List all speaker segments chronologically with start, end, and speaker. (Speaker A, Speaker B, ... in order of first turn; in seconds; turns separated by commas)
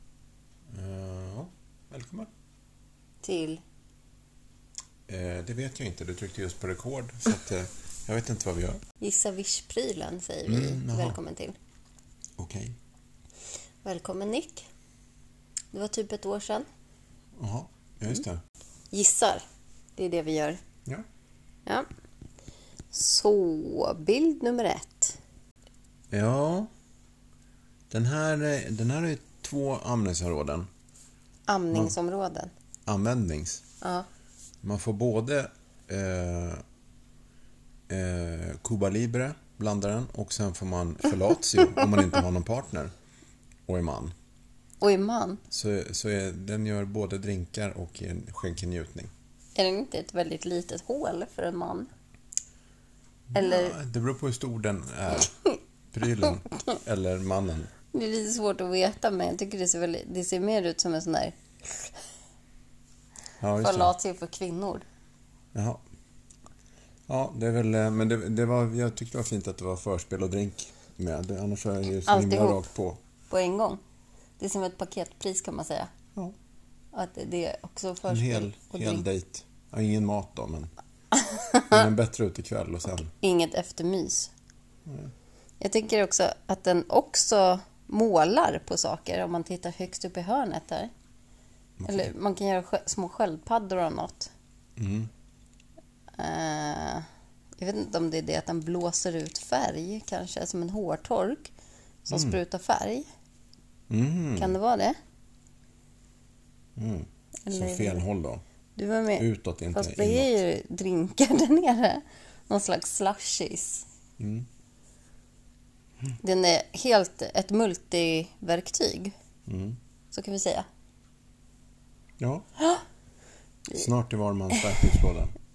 Speaker A: 0.7-2.3, Speaker B: 3.2-3.6, Speaker A: 5.1-8.8, Speaker B: 9.0-11.6, Speaker A: 10.5-11.2, Speaker A: 12.4-12.8, Speaker B: 13.8-14.7, Speaker B: 15.7-16.7, Speaker A: 17.4-18.4, Speaker B: 18.9-19.4, Speaker B: 20.0-20.6, Speaker B: 22.9-25.2, Speaker A: 26.1-26.7, Speaker A: 27.9-30.7, Speaker B: 31.5-32.5, Speaker A: 32.9-33.6, Speaker B: 33.8-34.1, Speaker A: 34.6-36.6, Speaker A: 37.9-42.9, Speaker A: 43.7-44.1, Speaker B: 44.8-45.4, Speaker A: 45.5-49.1, Speaker B: 49.6-51.9, Speaker A: 53.3-55.3, Speaker B: 53.4-53.8, Speaker B: 55.2-55.6, Speaker A: 55.9-57.7, Speaker B: 57.9-61.9, Speaker A: 63.4-63.9, Speaker B: 63.6-64.8, Speaker A: 65.5-65.8, Speaker A: 67.1-73.0, Speaker B: 72.1-72.7, Speaker B: 73.3-73.8, Speaker B: 74.4-75.9, Speaker B: 76.9-79.0, Speaker A: 78.1-80.7, Speaker B: 81.1-81.8, Speaker A: 81.7-83.1, Speaker B: 83.2-84.3, Speaker A: 84.9-85.1, Speaker B: 85.6-90.9, Speaker A: 91.8-92.1, Speaker B: 91.9-94.3, Speaker A: 94.8-95.1, Speaker B: 96.2-97.1, Speaker B: 97.6-101.5, Speaker B: 102.0-103.1, Speaker A: 102.1-102.4, Speaker A: 103.9-104.6, Speaker B: 104.4-105.0, Speaker A: 106.8-108.4, Speaker B: 107.5-108.0, Speaker B: 108.8-113.9, Speaker A: 109.2-110.4, Speaker A: 114.2-114.5, Speaker B: 116.2-119.1, Speaker A: 119.5-119.8, Speaker B: 120.1-120.7, Speaker A: 122.2-122.5, Speaker A: 123.7-125.3